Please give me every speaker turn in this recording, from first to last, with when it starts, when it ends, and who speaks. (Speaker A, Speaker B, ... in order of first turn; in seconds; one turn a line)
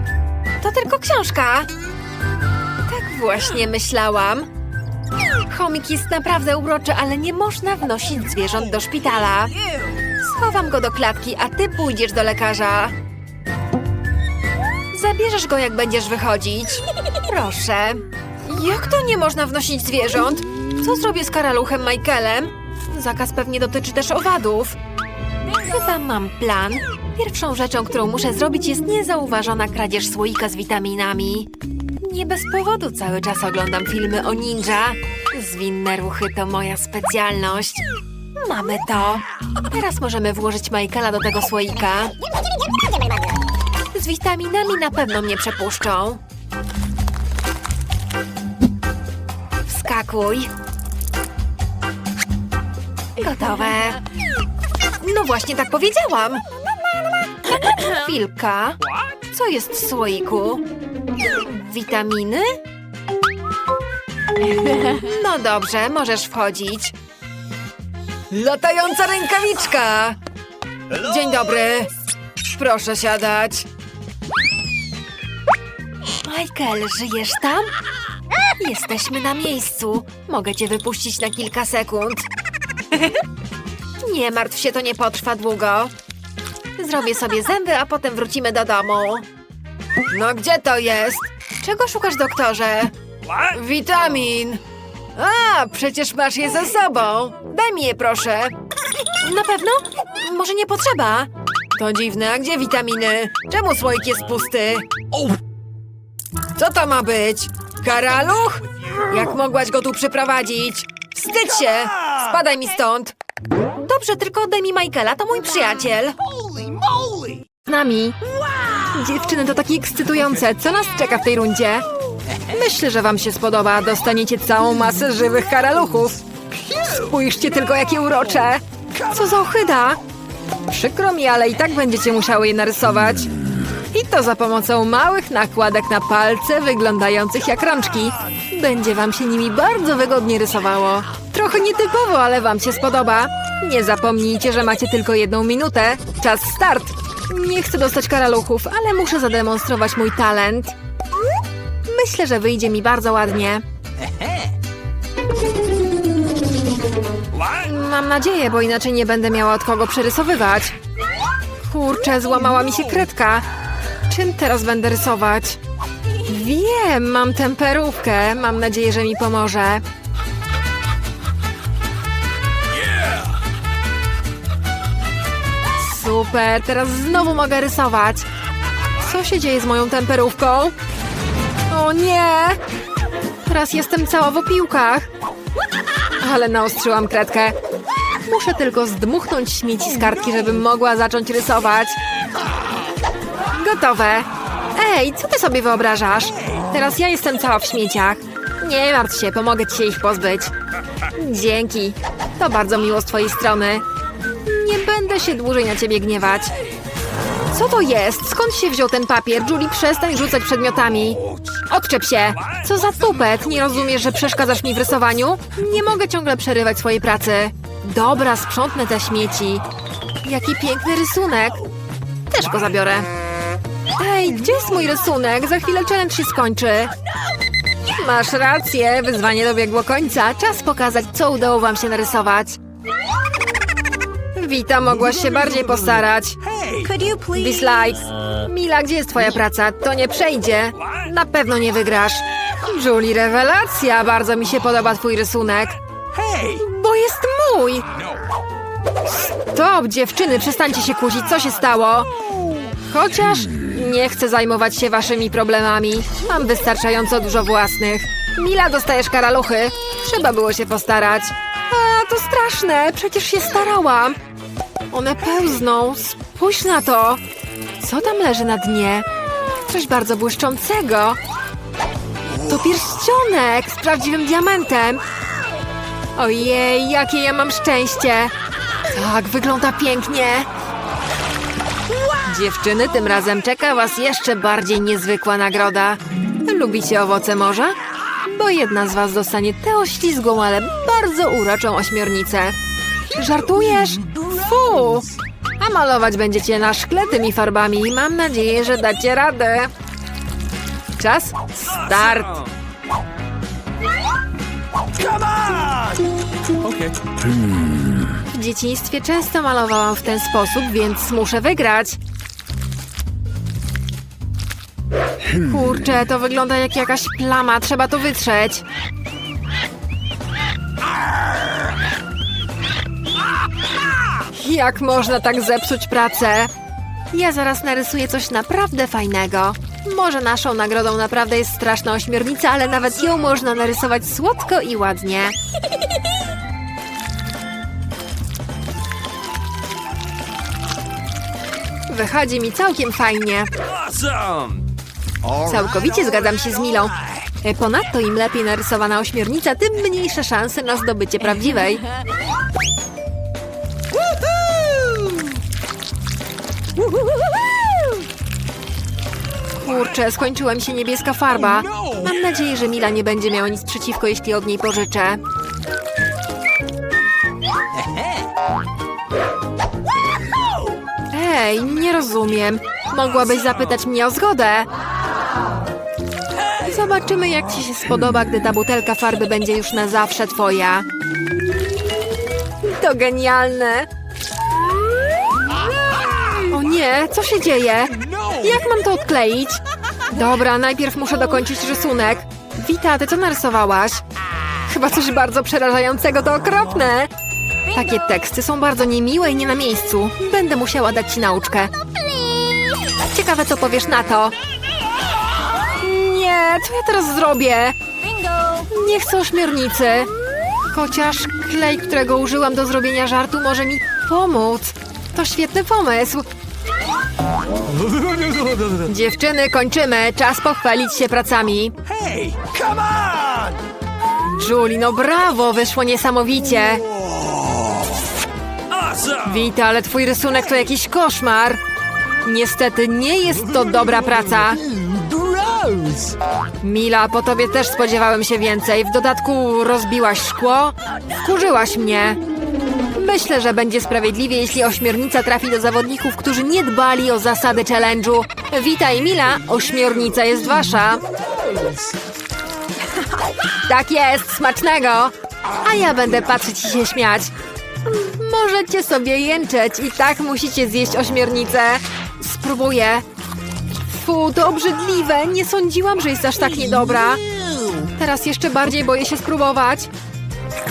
Speaker A: 0.6-1.7
Speaker A: 2.9-4.5
Speaker A: 5.5-9.5
Speaker A: 10.2-12.9
Speaker A: 14.9-24.8
Speaker A: 25.5-42.1
Speaker A: 43.9-46.2
Speaker A: 49.7-50.5
Speaker A: 53.1-54.0
Speaker A: 55.0-56.4
Speaker A: 57.7-60.6
Speaker B: 58.9-59.2
Speaker A: 61.3-62.6
Speaker A: 64.6-66.9
Speaker A: 68.3-70.2
Speaker A: 70.9-71.9
Speaker A: 72.5-73.7
Speaker A: 76.2-77.7
Speaker A: 78.6-82.3
Speaker A: 84.0-85.9
Speaker A: 86.8-89.2
Speaker A: 90.1-94.6
Speaker A: 95.1-98.5
Speaker A: 99.2-105.0
Speaker A: 106.5-113.1
Speaker A: 113.8-116.2
Speaker A: 117.7-118.2
Speaker A: 118.8-130.0
Speaker A: 130.7-133.3
Speaker A: 133.9-150.7
Speaker A: 151.8-153.6
Speaker B: 154.1-154.5
Speaker B: 157.3-157.7
Speaker A: 157.6-160.7
Speaker A: 161.6-163.4
Speaker A: 164.1-165.6
Speaker A: 166.2-169.8
Speaker A: 175.8-178.2
Speaker A: 179.0-180.7
Speaker A: 181.7-182.6
Speaker A: 183.4-185.1
Speaker A: 186.2-187.6
Speaker A: 188.2-192.0
Speaker A: 193.5-200.5
Speaker A: 201.1-203.8
Speaker A: 204.4-206.5
Speaker A: 207.5-219.6
Speaker A: 220.2-221.7
Speaker A: 222.3-223.1
Speaker A: 224.0-226.9
Speaker A: 227.8-232.6
Speaker A: 234.3-245.8
Speaker B: 236.4-237.0
Speaker B: 246.1-246.6
Speaker A: 246.5-247.9
Speaker A: 249.3-252.1
Speaker A: 252.9-264.2
Speaker A: 264.9-267.2
Speaker A: 267.8-269.1
Speaker A: 269.6-271.2
Speaker A: 272.4-275.0
Speaker A: 276.1-278.3
Speaker A: 278.9-280.5
Speaker A: 282.1-292.6
Speaker A: 293.1-299.7
Speaker A: 301.0-302.4
Speaker B: 301.9-302.5
Speaker B: 305.0-306.0
Speaker B: 306.6-307.1
Speaker A: 308.3-312.0
Speaker A: 315.4-318.6
Speaker A: 324.3-326.5
Speaker A: 327.1-335.4
Speaker A: 341.9-343.5
Speaker B: 343.8-344.7
Speaker A: 345.3-351.8
Speaker A: 359.6-365.2
Speaker B: 367.8-368.2
Speaker A: 371.1-374.7
Speaker A: 376.6-380.9
Speaker A: 382.6-383.9
Speaker A: 386.3-394.0
Speaker A: 394.6-397.1
Speaker A: 397.7-401.7
Speaker A: 403.1-404.3
Speaker A: 405.8-407.8
Speaker A: 408.6-410.1
Speaker A: 410.7-416.2
Speaker B: 417.7-418.9
Speaker A: 418.8-421.7
Speaker B: 421.9-423.6
Speaker A: 424.3-426.9
Speaker B: 428.7-429.3
Speaker A: 429.2-431.6
Speaker A: 432.2-434.6
Speaker B: 434.6-436.1
Speaker A: 436.6-442.2
Speaker A: 442.9-451.0
Speaker A: 453.6-457.3
Speaker A: 457.8-463.0
Speaker A: 463.9-467.2
Speaker A: 467.8-469.9